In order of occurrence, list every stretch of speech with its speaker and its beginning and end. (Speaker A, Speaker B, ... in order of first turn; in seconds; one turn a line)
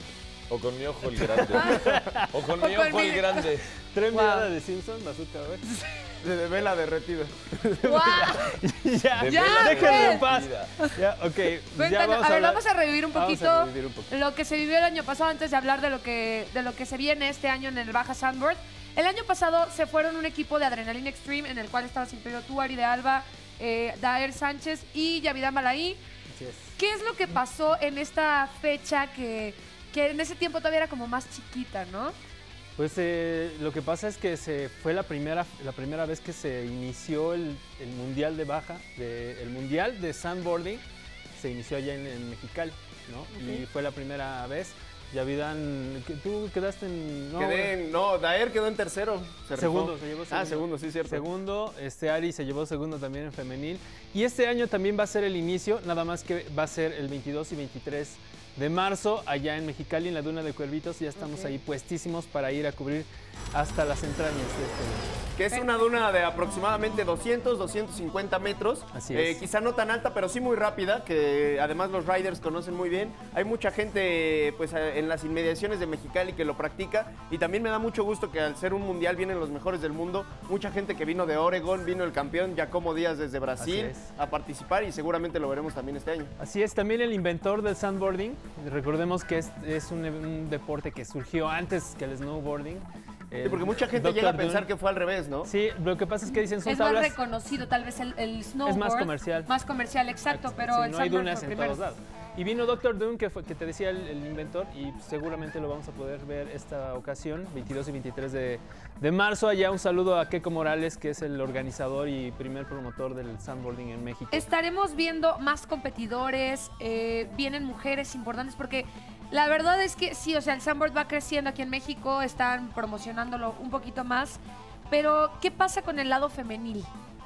Speaker A: 0.5-3.7
Speaker B: 1.5-1.9
Speaker C: 1.5-2.3
Speaker B: 2.6-3.5
Speaker C: 3.9-5.7
Speaker B: 4.1-4.5
Speaker B: 5.7-6.1
Speaker D: 6.2-7.3
Speaker C: 7.6-12.6
Speaker B: 7.8-8.6
Speaker A: 9.2-10.7
Speaker B: 9.3-11.0
Speaker B: 11.8-26.0
Speaker C: 13.1-14.1
Speaker C: 26.3-26.7
Speaker B: 26.8-32.1
Speaker C: 32.8-40.8
Speaker C: 41.4-47.7
Speaker B: 43.4-43.6
Speaker D: 47.4-51.3
Speaker C: 49.5-65.1
Speaker B: 61.2-61.5
Speaker D: 65.4-86.3
Speaker C: 68.9-69.4
Speaker C: 83.6-84.1
Speaker C: 86.4-94.7
Speaker D: 93.4-95.5
Speaker C: 95.5-97.2
Speaker B: 96.6-101.8
Speaker C: 98.7-99.5
Speaker C: 100.3-114.5
Speaker B: 114.3-126.9